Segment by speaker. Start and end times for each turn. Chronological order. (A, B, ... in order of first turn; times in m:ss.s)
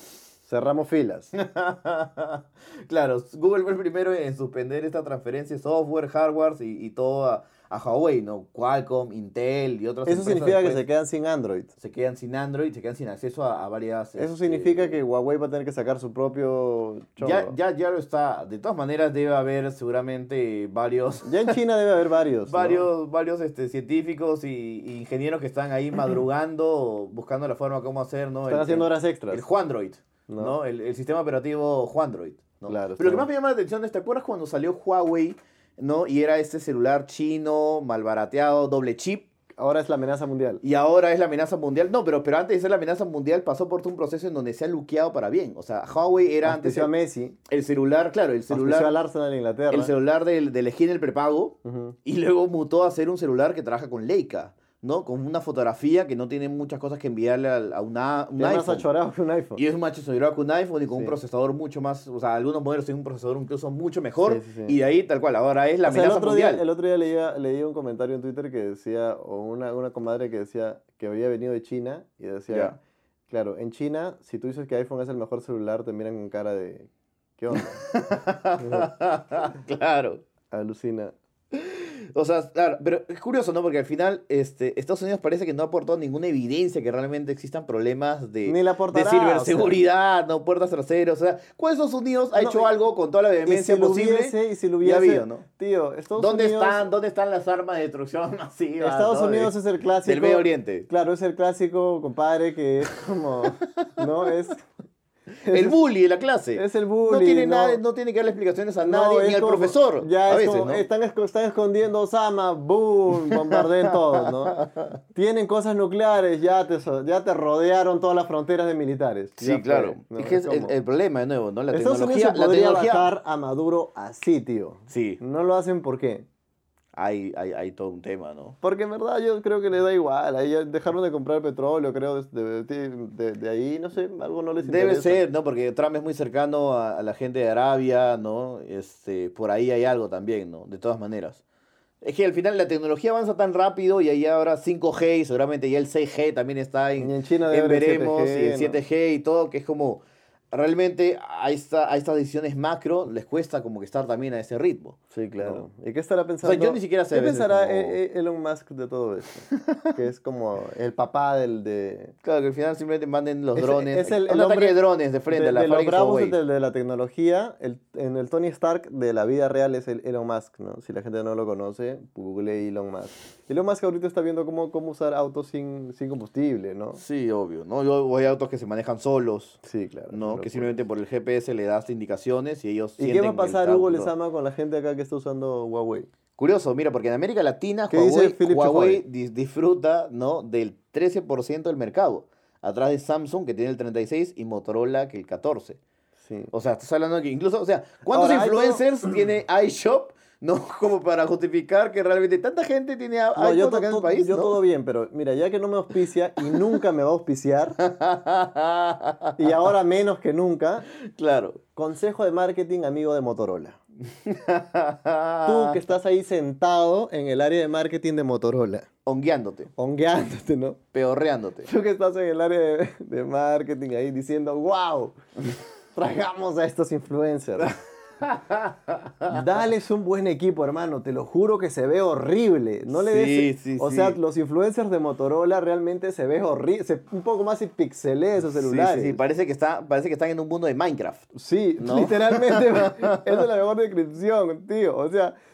0:00.4-0:01.3 A
0:01.3-0:10.8 B
0:10.1-0:11.7 A
0:11.8-0:15.0 B
0:14.2-0:17.6 A
0:17.2-0:21.6 B
0:21.2-0:22.9 A
0:22.5-0:39.3 B
0:28.5-0:29.4 A
0:30.3-0:30.5 A
0:32.7-0:33.3 A
0:39.6-0:40.6 A
0:40.6-0:46.9 B
0:46.4-0:47.4 A
0:47.5-0:49.0 B
0:48.5-0:49.9 A
0:49.7-0:58.9 B
0:51.6-0:52.0 A
0:58.4-0:59.6 A
0:59.6-1:06.6 B
1:04.3-1:04.8 A
1:05.8-1:12.8 A
1:12.5-1:12.8 B
1:13.3-1:17.8 A
1:17.5-1:20.2 B
1:18.6-1:18.9 A
1:20.5-1:21.1 A
1:21.5-1:35.5 B
1:28.5-1:29.8 A
1:32.4-1:32.7 A
1:33.4-1:36.9 A
1:36.2-1:40.9 B
1:38.8-1:44.6 A
1:45.4-1:45.8 A
1:45.5-1:50.8 B
1:46.6-1:47.8 A
1:48.8-1:54.6 A
1:53.3-1:54.9 B
1:55.1-2:00.7 A
1:59.4-2:03.1 B
2:01.7-2:06.3 A
2:04.9-2:05.2 B
2:06.9-2:08.6 B
2:08.6-2:15.2 A
2:14.6-2:21.4 B
2:22.0-2:35.6 B
2:27.0-2:28.8 A
2:35.1-2:42.1 A
2:36.4-2:38.0 B
2:39.5-2:39.9 B
2:42.2-2:46.4 B
2:43.6-2:57.0 A
2:57.0-3:04.1 B
2:59.6-3:00.8 A
3:03.0-3:06.1 A
3:06.4-3:15.8 B
3:07.9-3:09.0 A
3:16.2-3:16.5 A
3:16.5-3:24.6 B
3:18.1-3:18.8 A
3:23.4-3:27.8 A
3:27.8-3:29.5 B
3:29.4-3:30.9 A
3:31.1-3:31.6 B
3:31.8-3:33.8 A
3:34.2-3:35.8 B
3:35.5-3:38.9 A
3:39.1-3:39.7 B
3:39.8-3:40.8 A
3:40.9-3:41.7 B
3:41.6-3:45.2 A
3:46.0-3:47.7 A
3:47.7-3:49.4 B
3:49.3-3:59.2 A
3:52.9-3:54.2 B
3:58.6-4:01.3 B
4:01.3-4:05.4 A
4:01.8-4:03.2 B